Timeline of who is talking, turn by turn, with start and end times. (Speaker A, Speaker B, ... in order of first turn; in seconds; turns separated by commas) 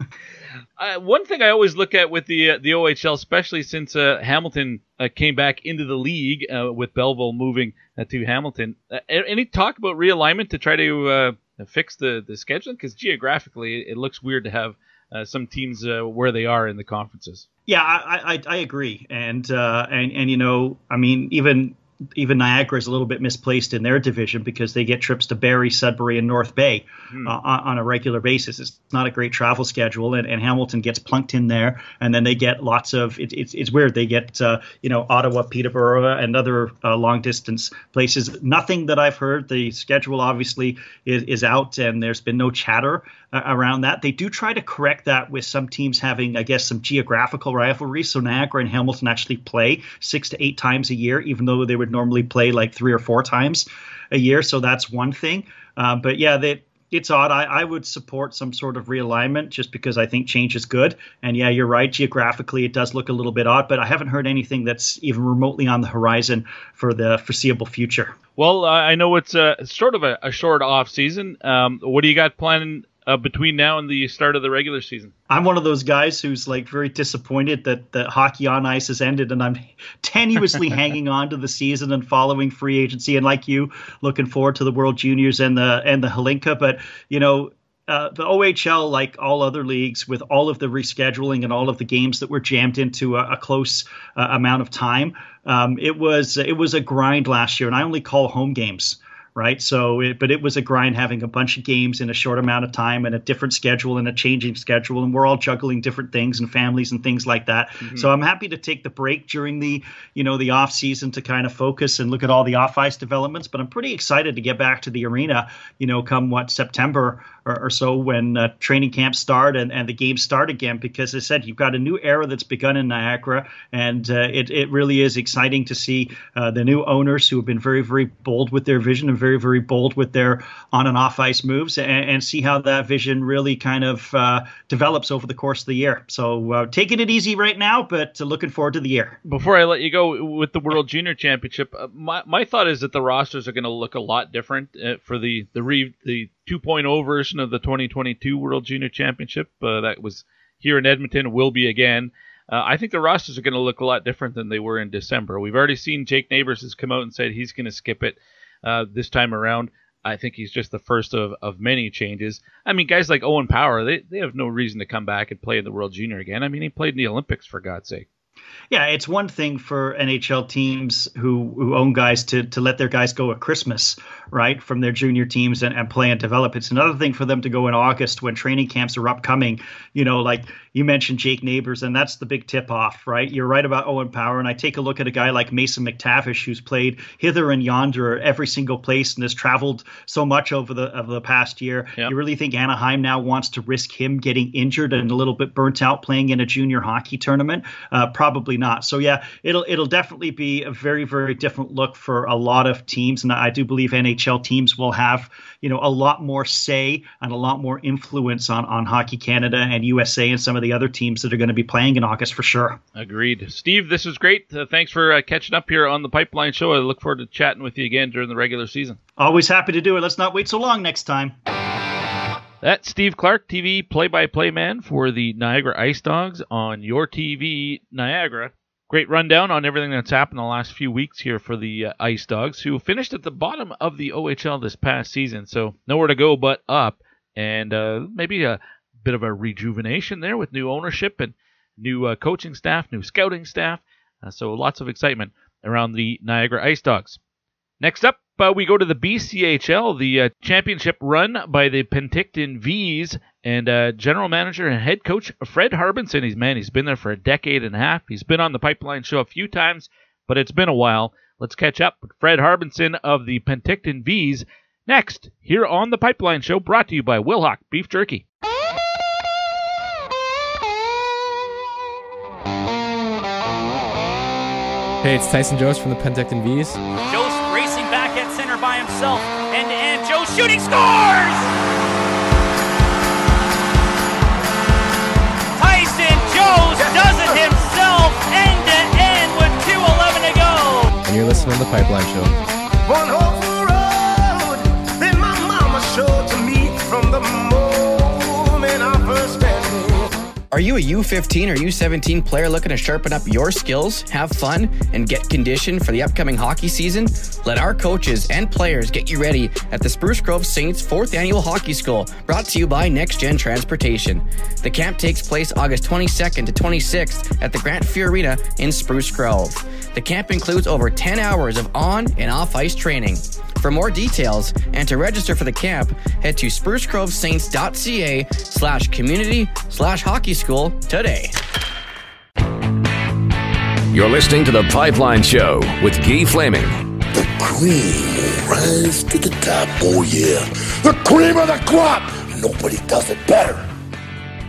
Speaker A: 0.8-17.4, Speaker B: 17.7-68.2, Speaker A: 68.4-75.1, Speaker B: 75.3-139.2, Speaker A: 139.2-168.1, Speaker B: 168.7-212.8, Speaker A: 212.9-219.0, Speaker B: 219.2-221.4, Speaker A: 222.6-247.2, Speaker A: 247.8-268.2, Speaker C: 275.0-276.8, Speaker D: 277.1-281.5, Speaker D: 285.6-291.0, Speaker E: 286.8-287.4, Speaker C: 291.0-292.4, Speaker E: 292.9-300.0, Speaker F: 300.5-331.3, Speaker G: 333.9-336.8, Speaker E: 337.1-343.6